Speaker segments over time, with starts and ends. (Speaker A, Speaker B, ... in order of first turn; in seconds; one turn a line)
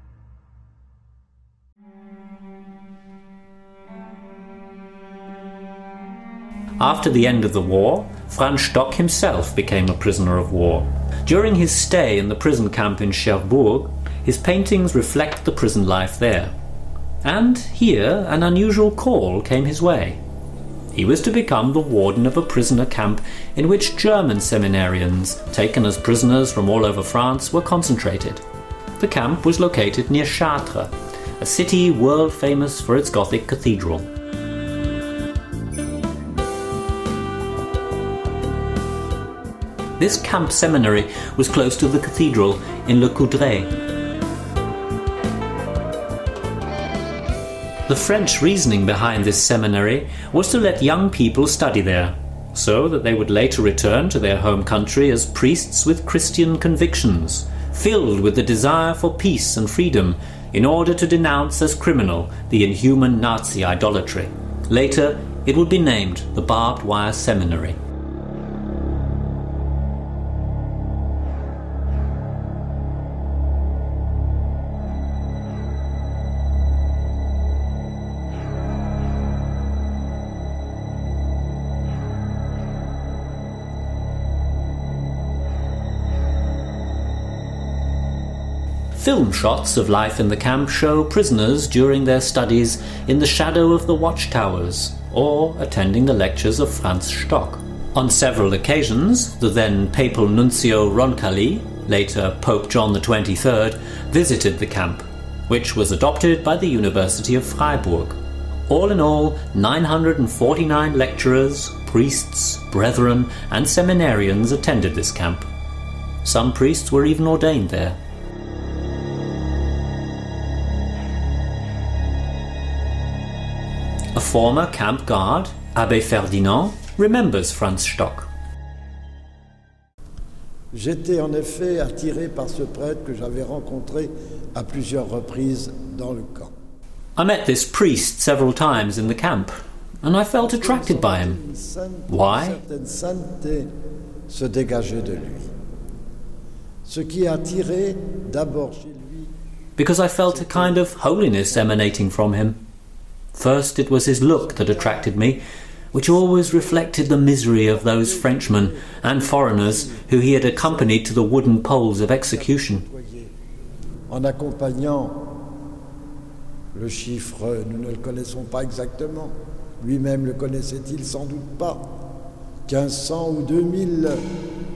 Speaker A: 6.8-16.5
Speaker A: 17.2-20.2
Speaker A: 20.9-28.4
Speaker A: 29.0-34.1
Speaker A: 40.0-43.7
Speaker A: 47.9-67.8
Speaker A: 88.9-115.5
Speaker A: 116.2-118.0
Speaker A: 124.1-128.3
Speaker B: 130.7-136.5
Speaker A: 137.2-141.4
Speaker B: 140.4-143.7
Speaker A: 142.1-142.6
Speaker B: 144.3-145.5
Speaker B: 146.8-149.3
Speaker A: 149.8-152.6
Speaker A: 153.3-155.4
Speaker A: 155.9-162.8
Speaker B: 162.7-163.3
Speaker B: 164.1-165.4
Speaker B: 166.7-172.0
Speaker B: 172.7-174.2